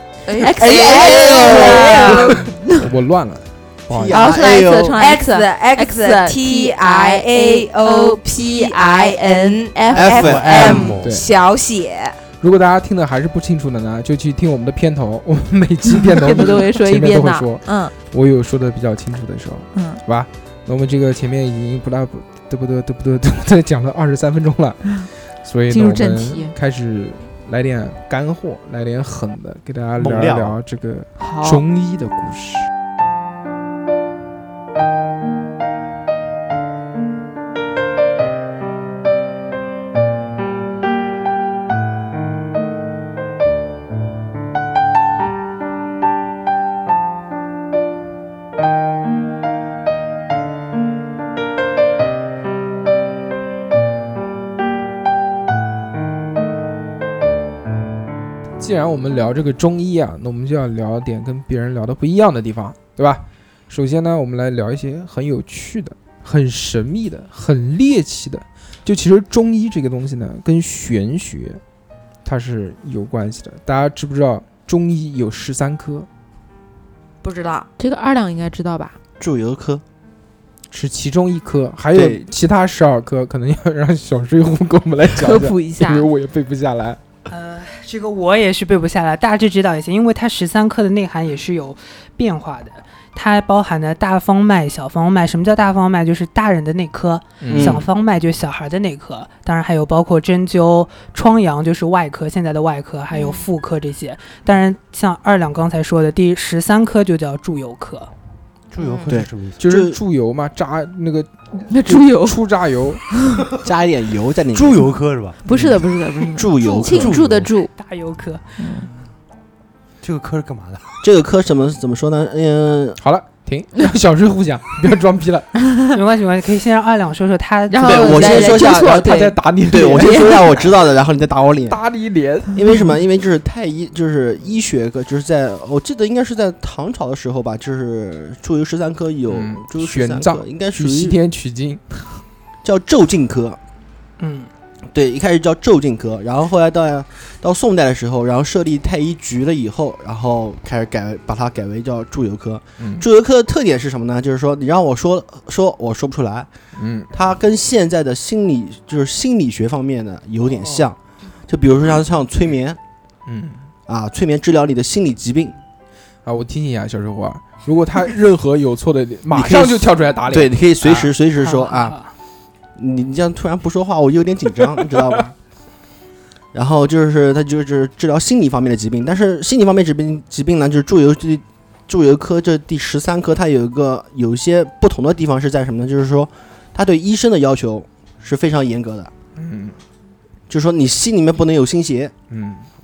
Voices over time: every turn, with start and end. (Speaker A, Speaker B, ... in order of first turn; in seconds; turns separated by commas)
Speaker A: 0.3-2.4, Speaker B: 0.4-2.8, Speaker C: 0.6-2.4, Speaker D: 2.8-4.3, Speaker C: 3.9-5.0, Speaker B: 4.1-10.1, Speaker A: 4.2-12.2, Speaker C: 9.9-11.0, Speaker E: 10.0-11.1, Speaker D: 12.4-32.7, Speaker B: 15.9-17.9, Speaker B: 19.7-20.0, Speaker B: 25.7-26.5, Speaker E: 30.0-30.6, Speaker B: 31.2-31.6, Speaker D: 58.6-71.6, Speaker D: 72.2-76.1, Speaker A: 77.2-77.7, Speaker B: 77.8-79.0, Speaker C: 79.2-79.8, Speaker D: 80.7-87.0, Speaker C: 81.9-82.2, Speaker B: 85.2-86.1, Speaker F: 87.3-108.1, Speaker D: 97.4-97.8, Speaker C: 97.5-97.9, Speaker A: 103.1-103.5, Speaker E: 108.7-109.6, Speaker A: 108.8-109.1, Speaker C: 109.1-110.0, Speaker D: 109.6-113.0, Speaker B: 111.7-112.4, Speaker C: 113.6-114.8, Speaker E: 114.5-115.4, Speaker B: 115.5-117.7, Speaker C: 116.3-117.5, Speaker E: 116.9-117.5, Speaker F: 117.8-118.5, Speaker B: 118.6-118.9, Speaker E: 120.0-120.9, Speaker C: 121.0-123.0, Speaker D: 123.0-125.5, Speaker F: 125.9-128.8, Speaker B: 127.7-129.4, Speaker C: 127.8-131.8, Speaker D: 128.8-130.8, Speaker B: 129.9-130.4, Speaker D: 131.7-132.6, Speaker C: 132.5-141.2, Speaker D: 139.3-142.2, Speaker C: 142.6-143.6, Speaker F: 144.2-144.5, Speaker C: 144.9-156.5, Speaker D: 152.8-153.1, Speaker D: 156.8-157.1, Speaker C: 157.1-161.0, Speaker E: 160.6-160.9, Speaker C: 161.5-162.8, Speaker D: 163.3-163.6, Speaker C: 163.9-165.6, Speaker D: 166.2-170.5, Speaker C: 169.3-172.0, Speaker F: 171.4-172.1, Speaker C: 172.8-175.3, Speaker C: 176.5-189.1, Speaker D: 189.4-189.8, Speaker C: 190.5-192.1, Speaker D: 192.3-192.7